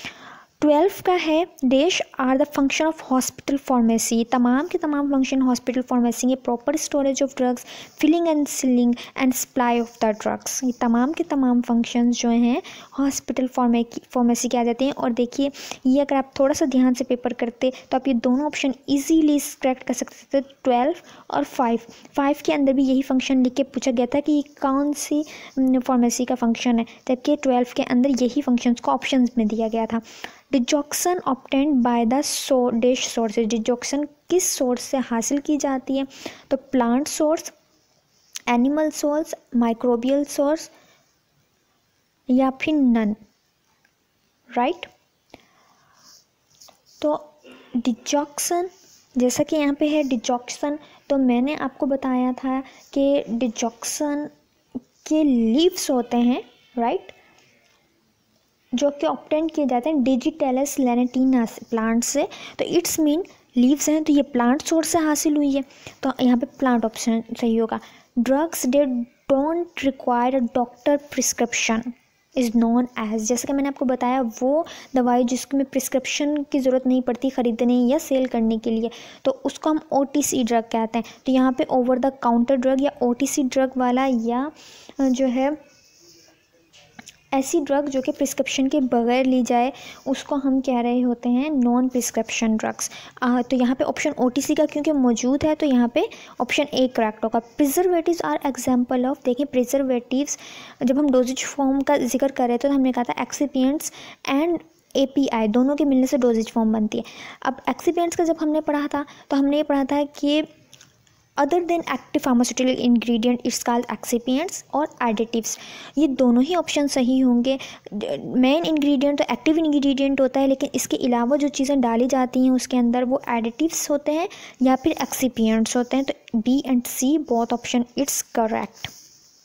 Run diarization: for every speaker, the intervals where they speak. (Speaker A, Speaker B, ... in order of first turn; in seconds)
Speaker A: 0.6-37.5, 38.5-40.7, 42.3-43.2, 44.5-44.9, 47.0-54.3, 55.0-57.1, 58.7-85.6, 87.3-110.5, 111.4-128.9